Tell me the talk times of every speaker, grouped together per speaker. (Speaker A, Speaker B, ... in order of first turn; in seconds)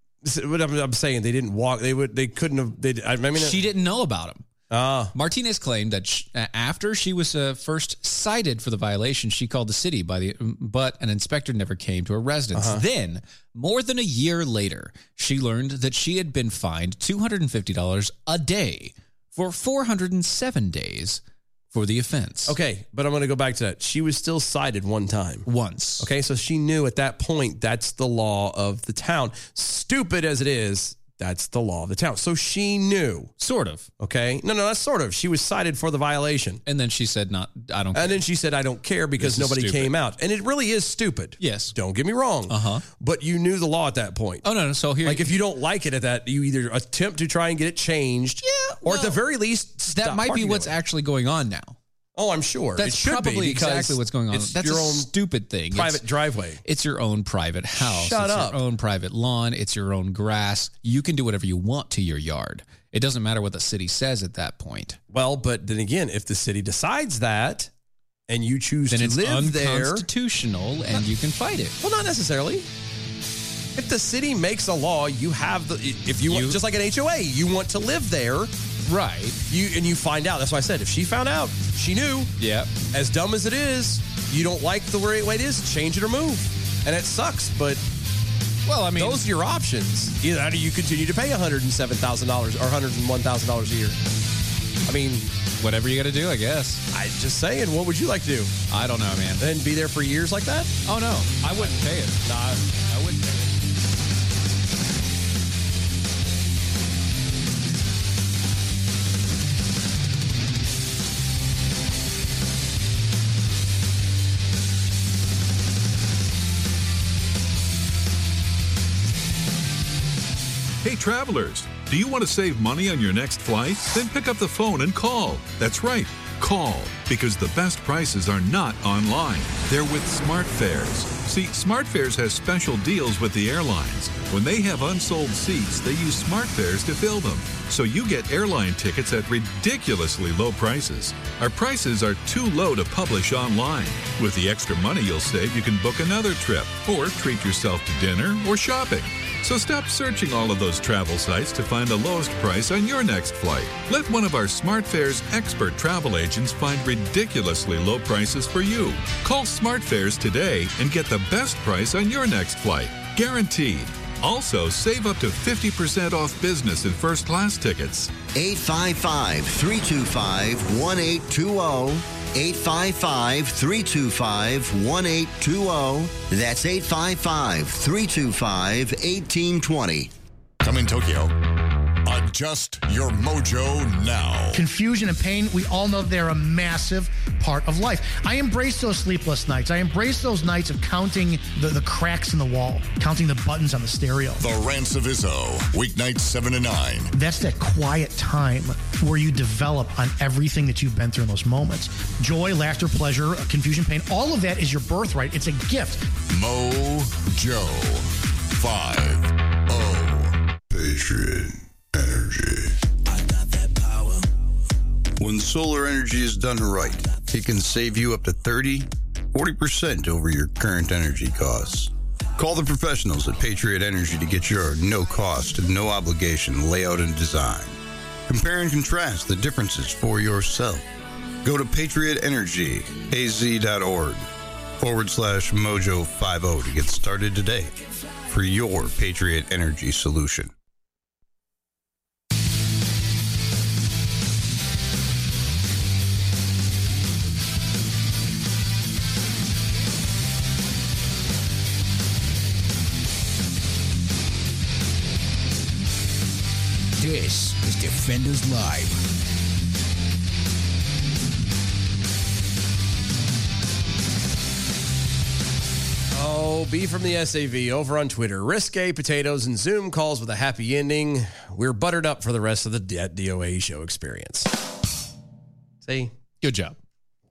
Speaker A: 0.2-3.6, 4.7-5.1, 12.5-12.8, 22.4-25.4, 26.0-33.3, 34.0-36.6, 37.9-44.4, 45.0-50.7, 52.1-55.1, 55.7-56.6, 57.8-58.6, 65.1-67.7, 68.3-70.1, 71.8-72.7, 73.8-78.5, 79.5-82.3, 82.9-87.8, 89.0-94.0, 94.8-95.3, 96.9-98.6, 99.4-100.7, 102.2-102.6, 266.1-274.5, 275.8-276.1
Speaker B: 3.4-4.5, 5.1-21.2, 21.7-22.6, 25.4-26.1, 33.4-33.9, 36.6-38.2, 39.2-39.9, 41.4-41.7, 42.5-42.9, 44.4-45.3, 48.4-49.2, 49.9-51.8, 52.8-56.0, 56.6-65.0, 68.9-71.8, 76.3-76.6, 78.9-79.4, 82.4-82.7, 88.7-89.2, 95.6-96.8, 98.7-99.4, 100.8-103.5, 276.4-276.8
Speaker C: 120.8-168.1
Speaker D: 168.3-180.1
Speaker E: 180.6-181.3, 182.1-184.6, 194.4-197.1, 206.3-212.8
Speaker F: 184.5-194.4, 197.1-206.1
Speaker G: 215.2-227.8, 228.3-230.8, 231.4-234.3, 234.8-237.8, 238.3-240.5
Speaker H: 257.0-259.0